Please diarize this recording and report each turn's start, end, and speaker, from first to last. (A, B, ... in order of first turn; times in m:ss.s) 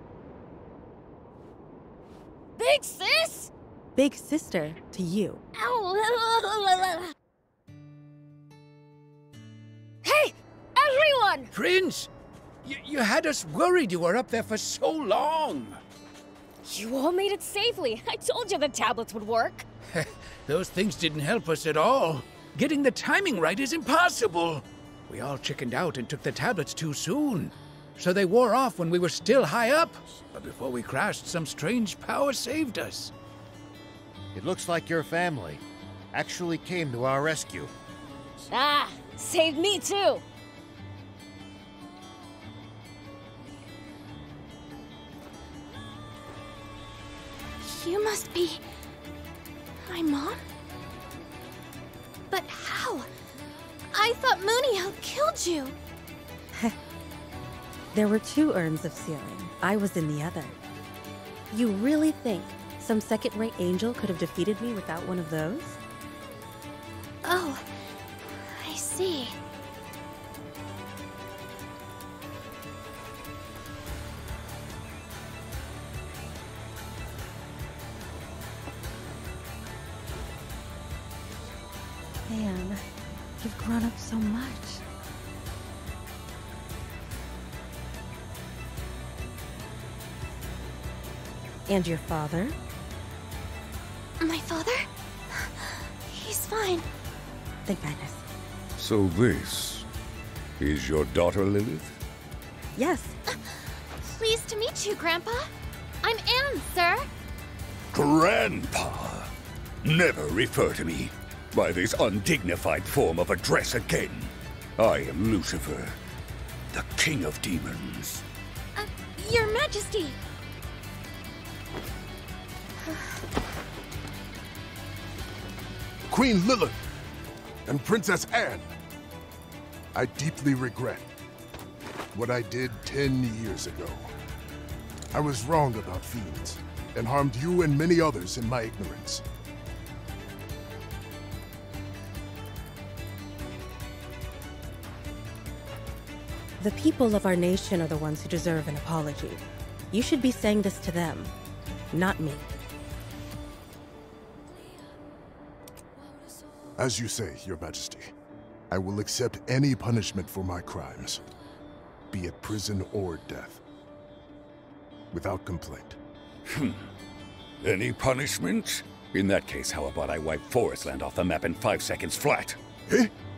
0:02.6-0:03.5 A
0:04.0-0:05.4 B
0:05.6-0:07.1 A
0:10.0-0:11.5 A
0:11.5-0:12.1 C
0:12.6-0:15.8 C
0:16.6-0:19.7 A
0:19.9-0:33.1 C
0:34.3-0:37.7 D
0:38.5-0:40.2 A
0:47.6-0:48.6 E
0:49.8-0:50.5 E
0:52.3-0:53.1 E
0:53.9-0:55.8 E
0:57.9-1:00.6 B
1:01.5-1:05.8 B
1:07.2-1:07.7 E
1:08.4-1:09.4 E
1:22.3-1:22.8 B
1:23.4-1:24.8 B
1:31.7-1:32.6 B
1:34.2-1:36.9 E
1:37.7-1:38.2 B
1:38.8-1:39.9 F
1:40.6-1:42.0 F
1:42.8-1:43.2 B
1:43.3-1:45.5 E
1:46.0-1:47.1 E
1:47.9-1:49.3 F
1:49.8-1:56.0 F
1:56.7-1:58.2 F
1:58.8-2:00.2 E
2:02.8-2:03.2 E
2:06.1-2:06.8 G
2:07.7-2:08.7 G
2:09.9-2:11.1 G
2:12.1-2:14.1 G
2:15.1-2:19.2 G
2:26.6-2:31.3 B
2:31.9-2:32.5 B
2:36.8-2:38.1 G
2:38.7-2:41.2 G
2:42.1-2:43.6 G
2:45.1-2:46.0 G
2:46.5-2:46.9 F
2:47.6-2:52.6 F